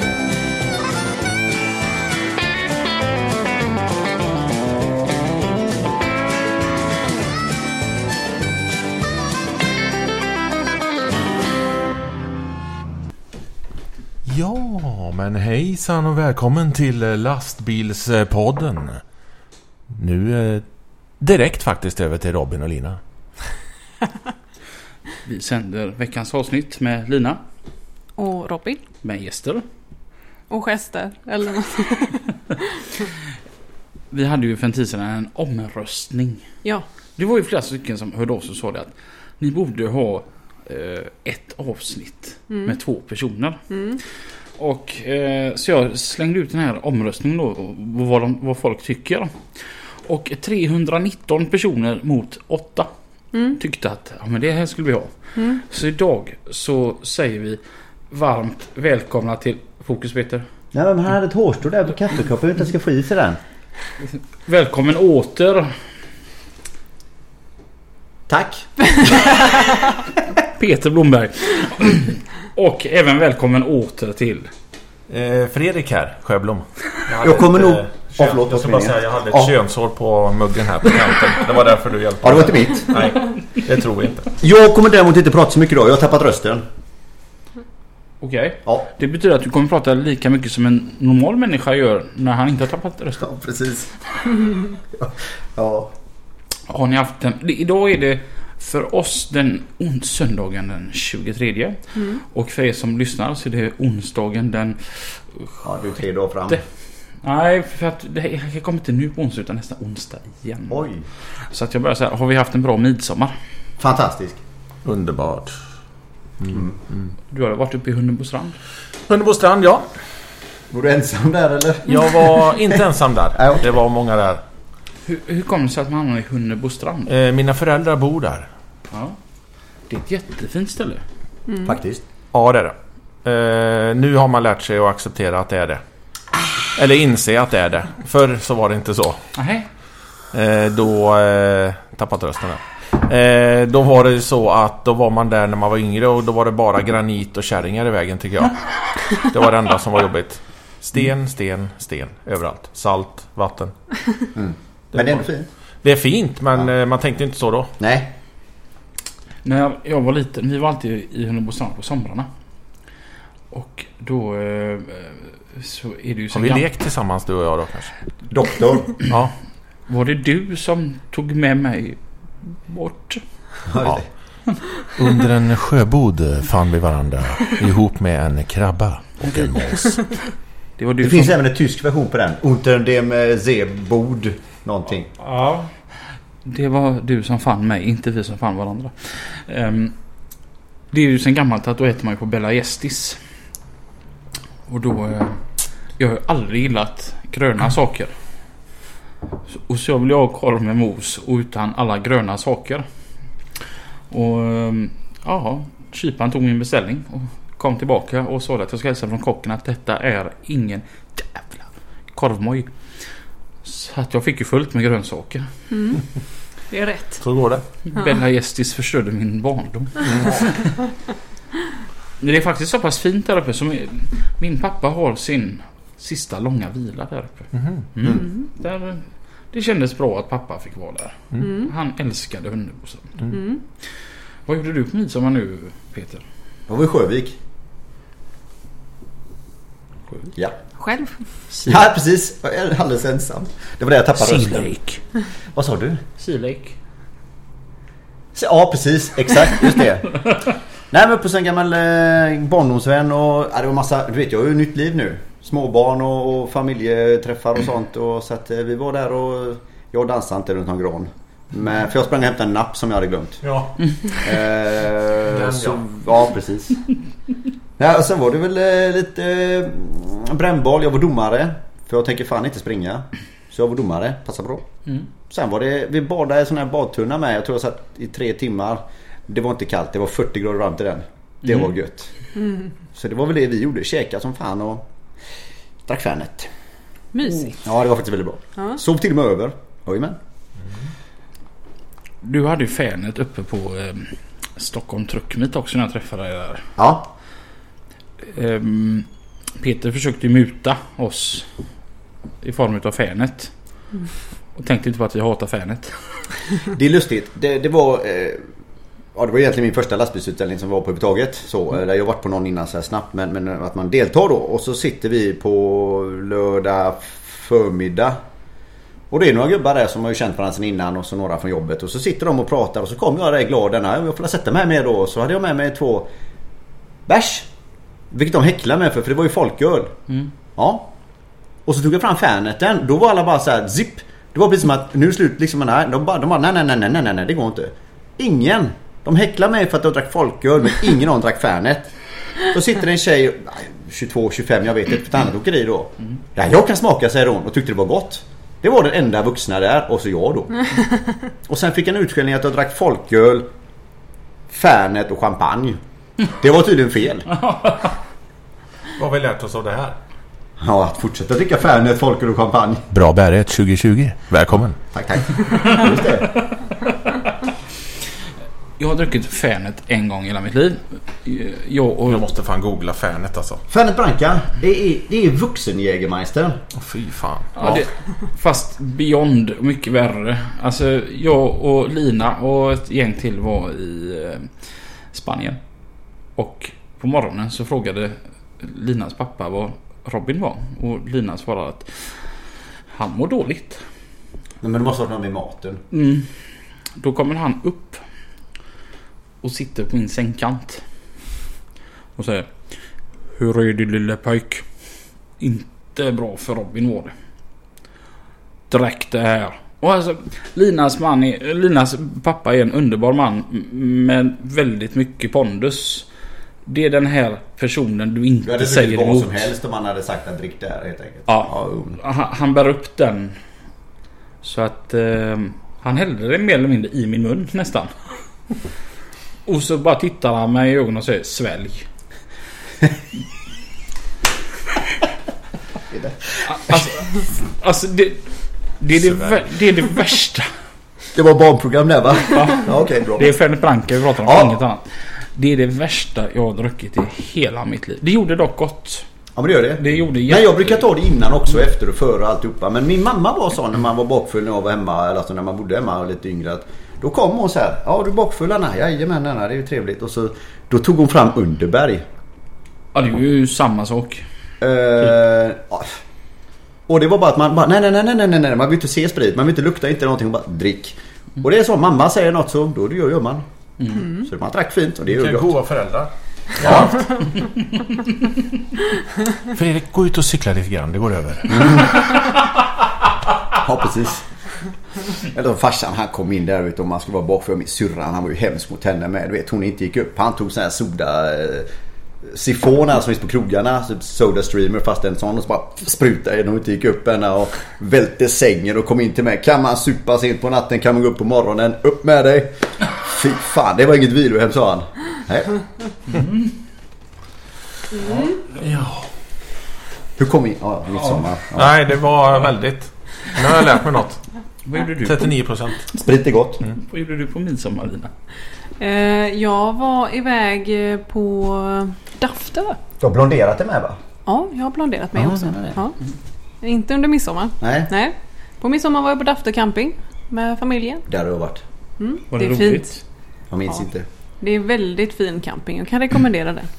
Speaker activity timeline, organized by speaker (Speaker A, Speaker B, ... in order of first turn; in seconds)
Speaker A: 14.2-19.0, 19.9-20.6, 21.2-23.0, 75.1-84.3, 114.8-115.6, 116.4-117.1, 119.1-119.8, 121.9-124.4, 127.1-128.5, 132.3-135.8, 136.7-139.2, 140.3-153.7, 155.8-157.7, 166.3-167.9, 174.9-180.0, 217.2-217.6, 220.0-220.4, 227.5-227.9, 263.4-263.7, 265.3-265.8, 358.9-359.9, 362.9-364.8, 372.1-373.6, 376.7-377.5, 439.0-439.4, 475.1-477.1, 479.5-482.1, 508.6-509.1, 511.5-514.2, 515.0-515.9
Speaker B: 25.2-27.4, 29.0-29.6, 34.1-36.5, 37.1-43.6, 44.6-49.4, 50.0-52.9, 53.5-60.4, 64.1-65.7, 70.5-74.5, 88.2-93.2, 96.7-105.5, 107.2-110.8, 111.5-113.3, 117.3-118.6, 125.0-127.1, 128.9-129.2, 129.9-131.0, 139.3-139.7, 159.4-162.3, 163.5-166.6, 169.9-173.2, 179.2-179.6, 180.8-181.3, 185.2-185.7, 186.4-189.9, 190.9-193.2, 194.7-195.4, 196.0-198.1, 199.5-202.8, 204.1-212.7, 213.6-215.5, 217.9-220.8, 222.2-233.2, 234.4-236.2, 241.5-241.8, 244.2-245.0, 246.2-246.8, 292.2-296.7, 298.2-299.1, 299.6-301.5, 302.4-303.5, 304.6-305.9, 357.3-357.9, 368.8-372.2, 377.6-384.5, 385.1-385.6, 386.4-392.2, 392.9-393.8, 395.9-396.3, 397.0-398.0, 399.4-400.8, 402.2-402.5, 403.3-404.6, 405.4-407.1, 408.7-416.1, 416.6-419.5, 421.3-423.4, 424.4-427.9, 429.4-431.9, 436.4-438.3, 438.8-440.5, 442.3-442.6, 443.2-449.1, 449.8-450.9, 462.9-464.2, 473.8-474.1, 477.4-477.8, 506.1-506.6, 508.0-508.6, 514.6-515.3, 516.7-518.1, 532.3-533.0
Speaker C: 28.1-28.8, 30.5-32.3, 42.5-42.8, 43.7-44.0, 53.3-53.6, 131.5-131.8, 215.7-216.0, 216.7-217.2, 231.4-231.7, 233.3-233.6, 240.8-241.2, 287.1-287.5, 518.8-522.8, 524.2-526.0, 526.6-531.0, 532.0-532.9, 534.4-536.7
Speaker D: 60.7-63.4, 68.3-69.6, 77.2-79.5, 82.2-83.0, 84.4-86.6, 93.2-95.9, 105.6-106.6, 110.7-111.0, 113.8-114.4, 116.5-116.8, 120.7-122.8, 123.3-123.6, 131.6-132.0, 154.3-155.5, 157.8-158.1, 168.3-168.9, 173.7-174.1, 181.0-185.1, 228.0-228.3, 236.7-237.4, 241.6-244.7, 245.5-246.0, 248.3-250.2, 250.9-263.4, 264.2-266.8, 267.8-274.6, 275.3-282.1, 282.9-284.9, 285.9-286.5, 287.5-290.2, 296.8-297.1, 306.7-308.4, 309.1-318.2, 319.1-326.1, 327.1-327.5, 328.1-329.9, 330.6-330.9, 331.6-341.9, 342.4-350.7, 351.5-353.5, 354.5-355.8, 356.3-357.3, 360.6-362.9, 364.9-366.3, 373.7-376.6, 394.6-395.8, 418.4-422.0, 435.9-436.8, 441.1-443.3, 444.2-444.6, 449.3-462.0, 464.6-466.0, 466.9-473.4, 474.0-475.5, 476.6-477.0, 481.5-482.1, 483.5-484.2, 485.3-491.7, 492.2-505.5, 510.2-511.7, 515.9-516.6, 523.0-524.0, 525.1-525.8, 527.6-527.9, 531.1-531.6, 533.5-534.0